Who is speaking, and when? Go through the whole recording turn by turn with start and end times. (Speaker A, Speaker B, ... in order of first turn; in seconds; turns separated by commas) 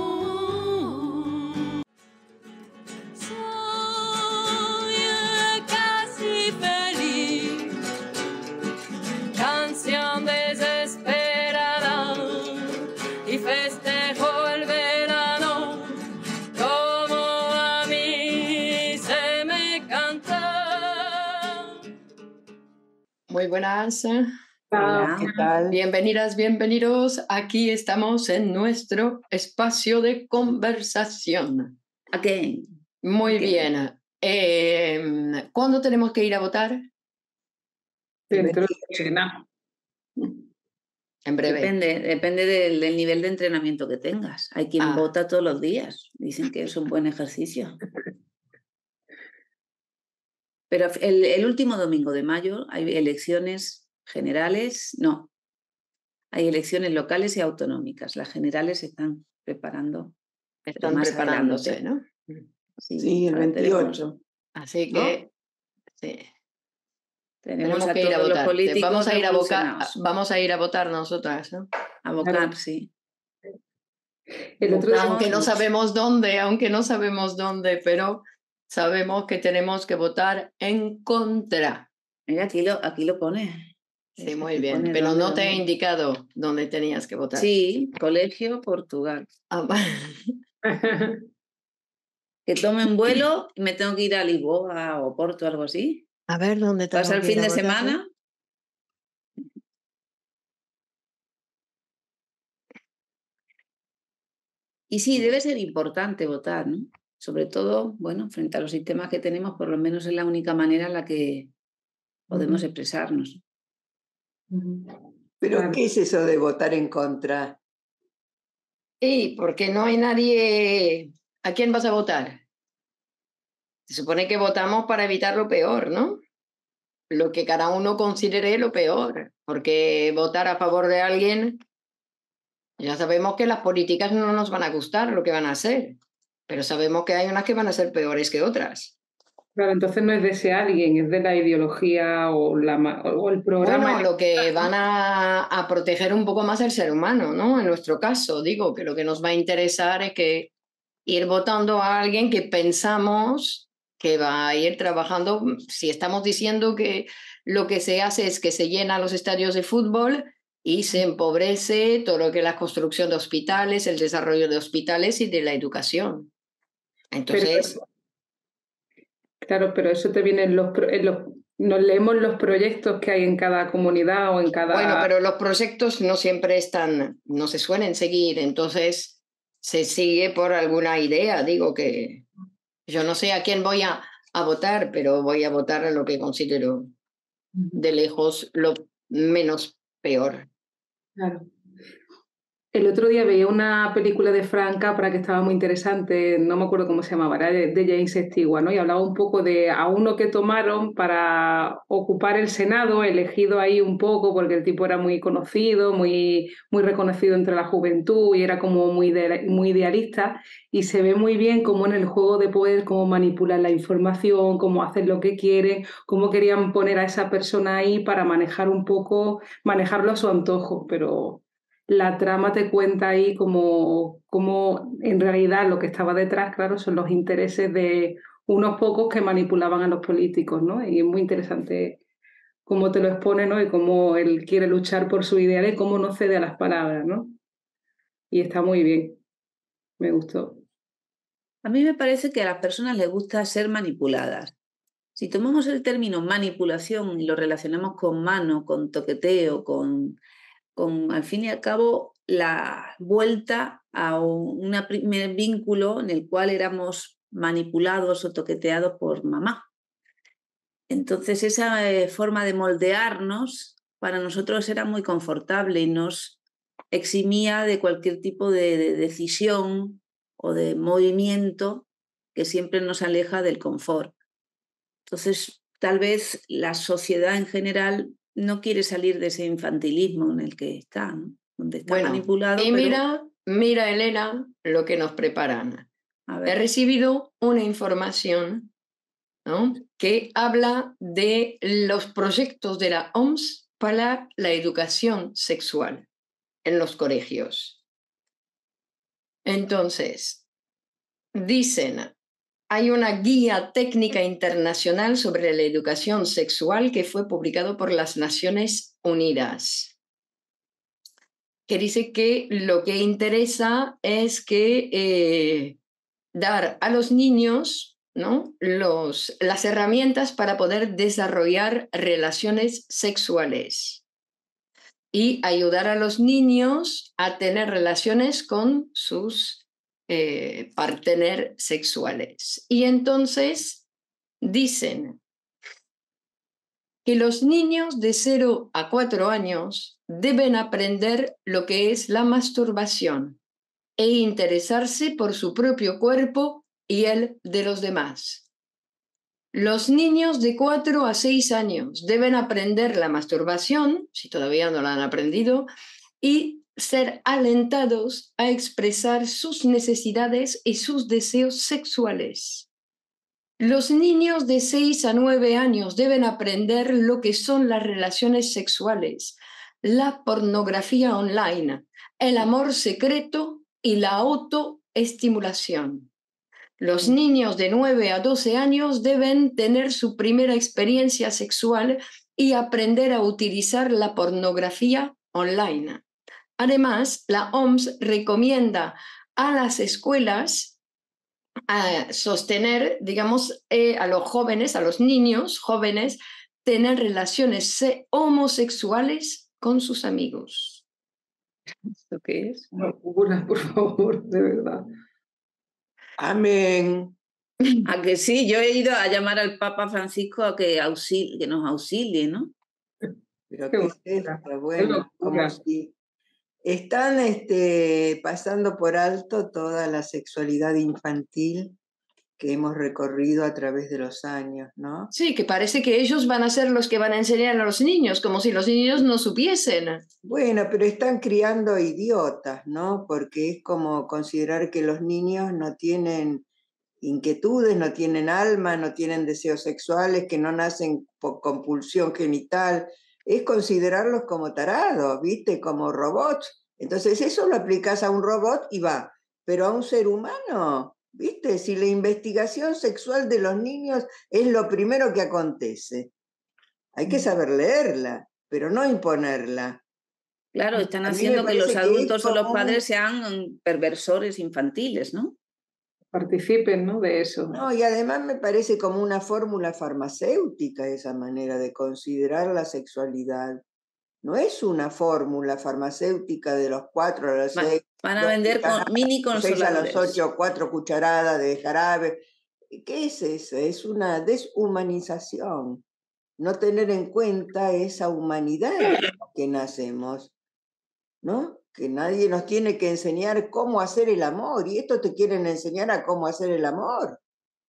Speaker A: 3.2-7.7, Speaker A: 9.3-16.0, Speaker A: 16.5-21.2, Speaker A: 23.3-24.3, Speaker B: 24.7-25.5, Speaker C: 24.7-25.7, Speaker D: 25.2-25.5, Speaker A: 25.7-31.8, Speaker C: 32.1-32.7, Speaker A: 33.0-36.8, Speaker C: 33.3-33.7, Speaker B: 38.3-39.4, Speaker D: 38.3-38.8, Speaker A: 41.2-41.7, Speaker C: 41.4-47.8, Speaker A: 44.8-45.1, Speaker C: 50.7-55.3, Speaker C: 56.3-60.1, Speaker A: 60.7-62.5, Speaker C: 60.8-61.8, Speaker C: 62.8-64.0, Speaker D: 63.0-64.2, Speaker A: 64.5-65.3, Speaker D: 64.9-65.2, Speaker A: 66.0-66.3, Speaker C: 67.4-69.9, Speaker A: 67.6-71.7, Speaker C: 72.0-72.9, Speaker B: 74.6-75.4, Speaker C: 74.6-75.6, Speaker A: 74.9-81.9, Speaker C: 82.3-85.6, Speaker A: 84.2-87.5, Speaker C: 87.3-89.3, Speaker A: 89.5-90.3, Speaker B: 90.7-91.2, Speaker C: 92.5-96.0, Speaker A: 96.3-97.9, Speaker C: 96.9-98.1, Speaker C: 104.9-111.5, Speaker C: 112.3-113.4, Speaker B: 112.3-112.6, Speaker B: 114.5-115.0, Speaker D: 115.4-117.6, Speaker B: 115.5-115.8, Speaker A: 119.0-122.4, Speaker A: 123.9-126.2, Speaker A: 127.1-131.6, Speaker A: 132.8-136.0, Speaker A: 136.5-138.9, Speaker B: 139.6-144.7, Speaker A: 143.6-150.5, Speaker A: 151.1-166.3, Speaker A: 167.1-167.8, Speaker B: 167.3-167.8, Speaker B: 169.4-175.1, Speaker A: 174.7-182.2, Speaker A: 182.9-186.9, Speaker B: 187.5-187.8, Speaker A: 187.7-190.5, Speaker B: 191.2-191.5, Speaker B: 192.7-232.0, Speaker B: 232.7-237.3, Speaker B: 238.3-239.2, Speaker B: 240.0-240.6, Speaker C: 241.6-244.5, Speaker C: 245.2-250.2, Speaker C: 250.7-259.6, Speaker C: 260.9-266.4, Speaker C: 266.9-274.1, Speaker C: 275.1-283.0, Speaker A: 281.9-285.9, Speaker C: 286.3-286.6, Speaker A: 286.4-288.7, Speaker A: 289.4-296.1, Speaker A: 296.6-297.8, Speaker A: 299.4-300.4, Speaker A: 301.3-302.1, Speaker A: 302.7-309.9, Speaker A: 311.7-315.8, Speaker A: 316.3-324.0, Speaker A: 325.1-333.8, Speaker A: 334.4-335.2, Speaker A: 337.0-343.4, Speaker A: 344.0-348.4, Speaker A: 349.5-355.7, Speaker A: 356.2-362.7, Speaker A: 363.6-376.1, Speaker A: 376.8-386.0, Speaker A: 386.6-390.8, Speaker A: 391.7-400.8, Speaker C: 402.1-402.7, Speaker B: 402.7-404.8, Speaker D: 406.2-407.1, Speaker C: 407.8-412.5, Speaker D: 413.5-415.9, Speaker B: 413.7-415.6, Speaker D: 416.6-421.8, Speaker D: 422.4-425.1, Speaker A: 425.1-430.0, Speaker D: 430.2-436.4, Speaker D: 437.0-456.1, Speaker D: 456.9-459.8, Speaker C: 460.5-465.4, Speaker D: 461.0-462.8, Speaker B: 466.1-467.6, Speaker D: 467.5-473.6, Speaker D: 474.2-485.8, Speaker C: 477.5-480.2, Speaker D: 486.4-490.3, Speaker D: 491.2-497.2